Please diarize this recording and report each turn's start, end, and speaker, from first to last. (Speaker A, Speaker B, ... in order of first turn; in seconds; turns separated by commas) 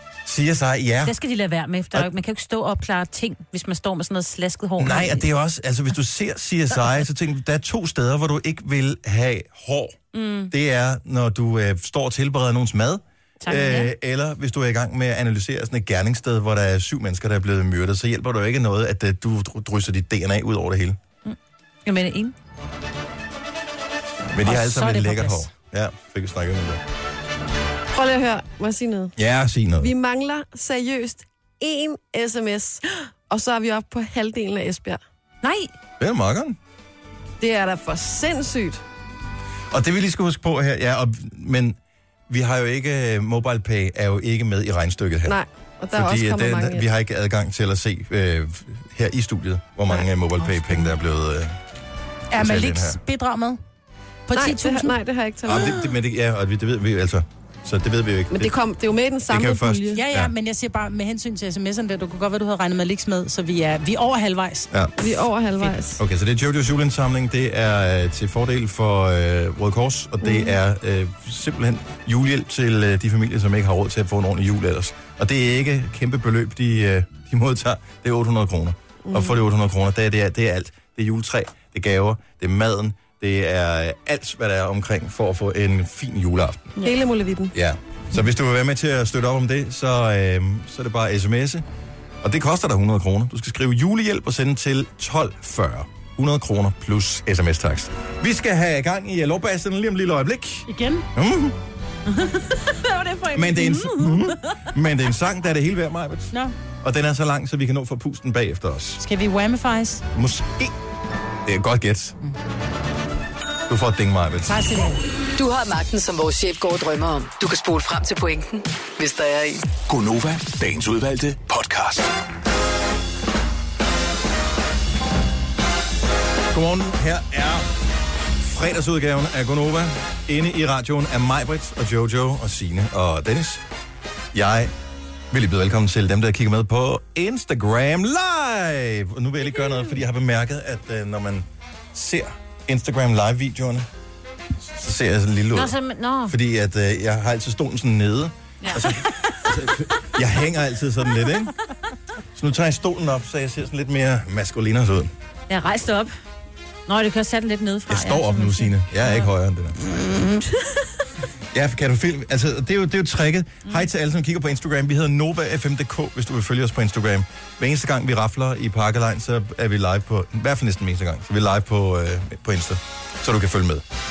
Speaker A: 0.2-1.1, Speaker B: 1.1-5.3, Speaker A: 4.8-10.0, Speaker B: 10.1-10.5, Speaker A: 10.5-21.0, Speaker B: 13.4-13.9, Speaker B: 21.2-22.3, Speaker A: 24.3-26.8, Speaker C: 24.4-25.5, Speaker D: 27.9-29.1, Speaker A: 29.2-29.9, Speaker D: 29.8-35.0, Speaker B: 35.4-35.7, Speaker A: 36.0-36.6, Speaker D: 37.4-38.8, Speaker A: 39.7-41.8, Speaker A: 42.3-45.4, Speaker D: 45.2-46.8, Speaker A: 45.9-51.6, Speaker C: 52.3-53.6, Speaker A: 52.3-53.0, Speaker C: 54.3-55.0, Speaker D: 54.3-55.8, Speaker A: 55.5-58.5, Speaker D: 58.3-60.0, Speaker A: 59.3-60.3, Speaker C: 59.9-64.7, Speaker D: 65.0-66.0, Speaker A: 66.0-86.8, Speaker D: 70.2-70.5, Speaker D: 79.1-79.4, Speaker D: 86.8-87.5, Speaker A: 87.5-91.6, Speaker A: 92.2-101.6, Speaker C: 100.7-101.1, Speaker B: 102.1-104.6, Speaker A: 103.3-109.0, Speaker C: 109.0-110.0, Speaker A: 110.1-110.7, Speaker A: 111.4-112.2, Speaker A: 113.7-114.6, Speaker C: 114.5-115.0, Speaker E: 115.3-119.7, Speaker F: 119.9-122.1, Speaker A: 126.5-127.7, Speaker A: 128.4-133.6, Speaker A: 134.3-134.7, Speaker A: 135.3-143.9, Speaker A: 144.7-151.5, Speaker B: 145.5-146.3, Speaker B: 148.6-149.4, Speaker A: 152.3-155.1, Speaker B: 155.5-156.1, Speaker B: 156.9-159.3, Speaker A: 157.9-159.8, Speaker B: 159.8-160.8, Speaker A: 161.5-173.8